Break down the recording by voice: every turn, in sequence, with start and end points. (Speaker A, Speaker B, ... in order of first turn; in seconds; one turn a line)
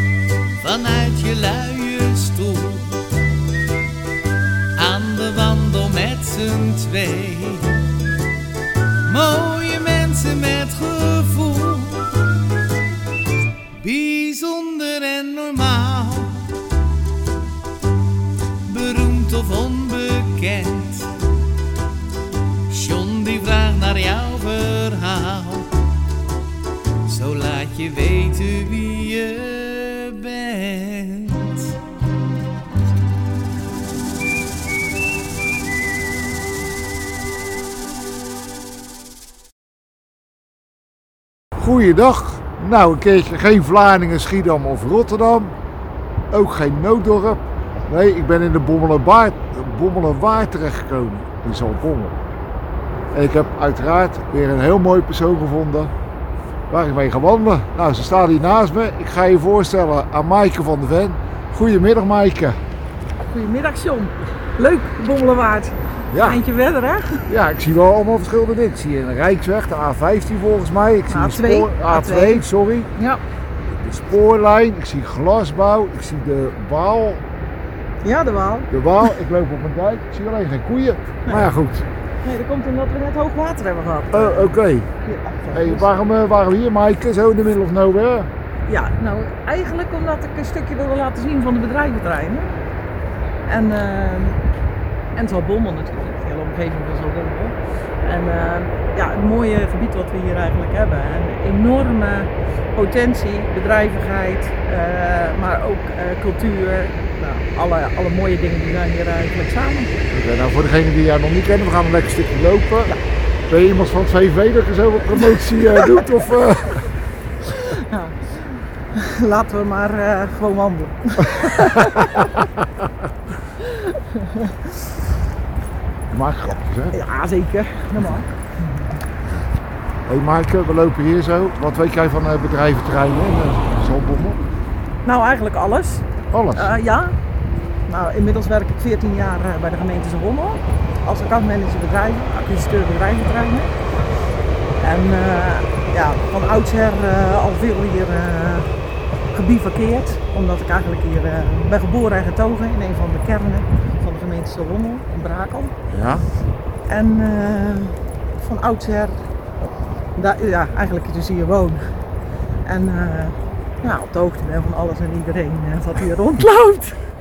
Speaker A: 0.6-3.0
Speaker A: 4.8-7.8
Speaker A: 9.0-12.3
Speaker A: 13.8-16.5
Speaker A: 18.6-21.1
Speaker A: 22.7-25.7
Speaker A: 27.1-31.8
Speaker B: 41.6-45.6
Speaker B: 46.3-52.2
Speaker B: 53.1-55.9
Speaker B: 56.7-62.6
Speaker C: 63.3-67.3
Speaker B: 66.1-66.4
Speaker B: 67.3-72.9
Speaker C: 71.1-73.2
Speaker B: 73.7-77.3
Speaker C: 78.0-79.1
Speaker B: 78.7-81.9
Speaker C: 82.2-85.9
Speaker B: 84.1-84.9
Speaker B: 85.5-88.3
Speaker C: 88.7-92.5
Speaker C: 93.5-94.4
Speaker C: 95.2-110.0
Speaker B: 110.1-112.9
Speaker B: 113.5-116.9
Speaker C: 117.5-122.5
Speaker B: 121.3-122.9
Speaker C: 123.6-124.6
Speaker B: 126.1-127.0
Speaker C: 126.9-128.9
Speaker B: 130.1-134.4
Speaker C: 135.1-137.2
Speaker B: 136.3-136.7
Speaker C: 137.9-143.7
Speaker C: 144.8-148.7
Speaker C: 149.3-155.7
Speaker B: 155.9-156.3
Speaker C: 156.9-159.2
Speaker C: 160.2-161.9
Speaker C: 162.7-167.0